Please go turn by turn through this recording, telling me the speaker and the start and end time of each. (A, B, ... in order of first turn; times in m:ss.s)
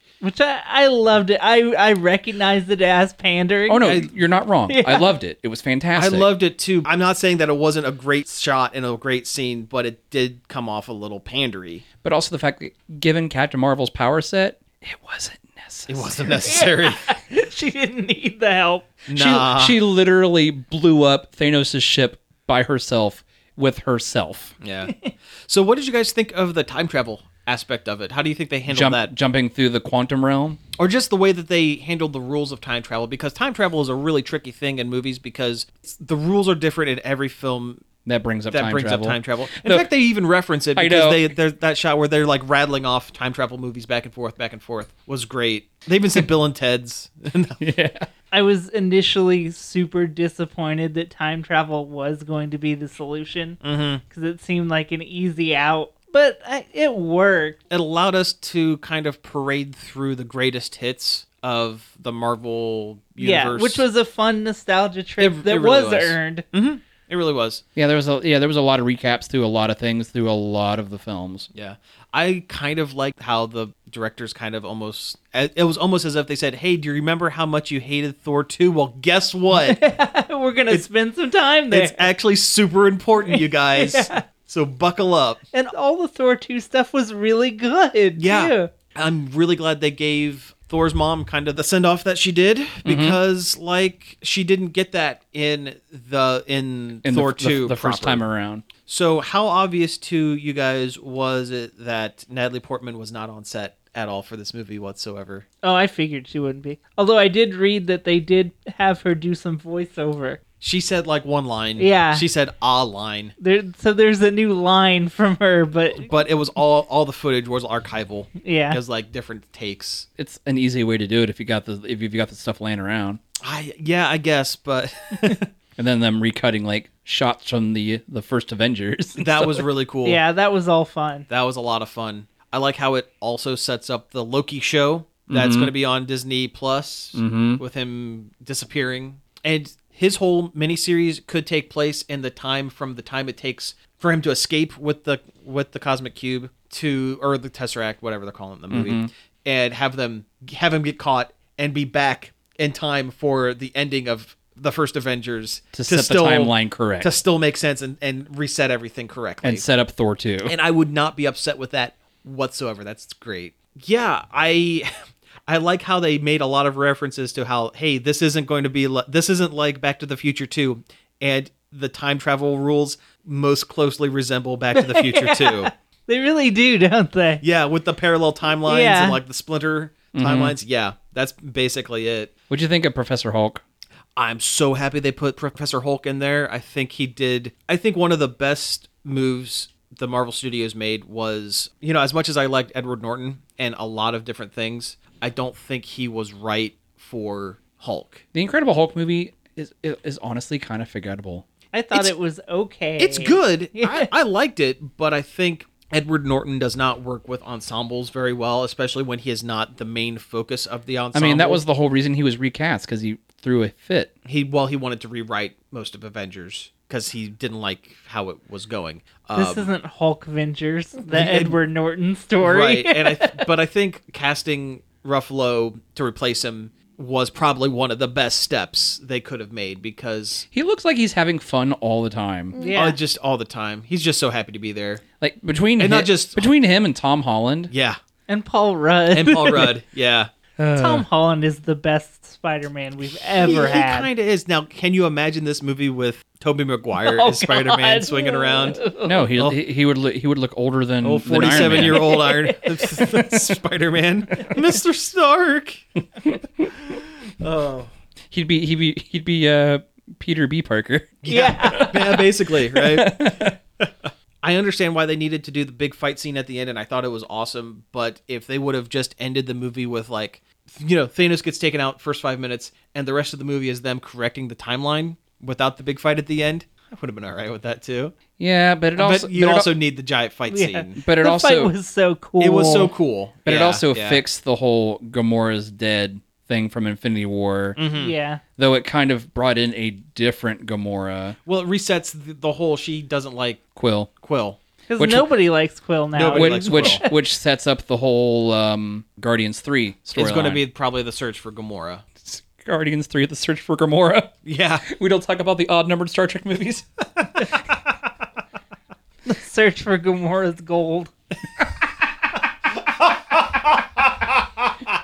0:00.2-0:03.9 A
0:03.7-0:06.3 B
0:04.7-0:05.1 A
0:05.9-0:11.8 C
0:12.0-0:16.5 B
0:15.9-0:17.1 C
0:16.4-0:18.9 A
0:19.1-0:19.8 C
0:19.1-0:24.5 B
0:24.6-0:29.1 C
0:28.7-0:30.6 B
0:30.8-0:37.8 C
0:38.0-0:39.9 B
0:38.5-0:47.6 C
0:40.7-0:41.3 B
0:47.6-0:48.1 B
0:48.3-0:57.6 A
0:53.6-0:54.0 C
0:57.7-1:03.8 C
1:03.2-1:06.4 A
1:05.2-1:07.6 C
1:07.8-1:11.5 B
1:11.5-1:19.8 C
1:19.5-1:22.1 A
1:21.7-1:25.4 C
1:23.2-1:24.2 A
1:25.5-1:28.7 A
1:28.2-1:38.2 C
1:32.8-1:33.2 B
1:37.0-1:38.6 B
1:38.8-1:45.4 C
1:45.6-1:50.4 A
1:50.6-1:53.3 C
1:51.8-1:52.2 A
1:53.4-1:56.1 A
1:56.0-2:00.1 C
1:58.4-1:58.8 A
2:00.2-2:03.2 B
2:03.4-2:05.5 C
2:05.8-2:09.6 B
2:09.2-2:10.2 C
2:10.0-2:11.2 A
2:11.3-2:39.6 C
2:15.3-2:15.7 B
2:17.1-2:17.6 B
2:28.7-2:29.1 B
2:35.7-2:37.1 B
2:39.4-2:40.5 B
2:40.4-2:44.9 C
2:45.5-2:55.7 C
2:54.7-2:57.4 A
2:57.4-3:02.3 C
2:58.6-2:59.2 A
3:00.1-3:00.6 B
3:02.5-3:03.6 B
3:04.2-3:18.2 C
3:18.3-3:21.4 B
3:21.7-3:24.1 A
3:23.0-3:31.6 C
3:31.1-3:34.1 B
3:34.2-3:39.7 C
3:39.3-3:43.5 A
3:41.1-3:41.6 C
3:42.4-3:50.4 C
3:50.5-3:52.6 B
3:52.6-3:53.0 A
3:52.7-3:55.0 C
3:55.2-3:57.7 B
3:55.8-3:56.5 C
3:57.7-3:58.0 C
3:58.3-3:59.7 A
3:59.1-4:00.3 C
4:00.6-4:01.0 B
4:00.8-4:04.1 A
4:03.4-4:09.6 C
4:07.0-4:09.3 A
4:09.0-4:12.3 B
4:11.0-4:15.8 C
4:17.4-4:17.9 C
4:18.3-4:23.6 B
4:21.2-4:23.9 C
4:21.3-4:22.0 A
4:24.4-4:38.1 C
4:38.4-4:39.7 B
4:39.0-4:41.0 C
4:40.5-4:42.9 A
4:41.0-4:41.7 B
4:42.4-4:44.2 C
4:43.4-4:47.8 B
4:47.8-4:48.1 C
4:47.9-4:48.4 A
4:48.6-4:51.4 B
4:51.4-4:53.6 C
4:53.7-4:54.1 B
4:54.2-4:54.6 C
4:54.9-4:57.1 A
4:55.0-4:55.3 B
4:56.1-4:57.0 C
4:56.3-5:00.6 B
5:00.1-5:02.0 C
5:02.2-5:04.3 B
5:04.4-5:04.8 C
5:04.8-5:06.8 B
5:09.2-5:11.1 A
5:13.0-5:13.8 C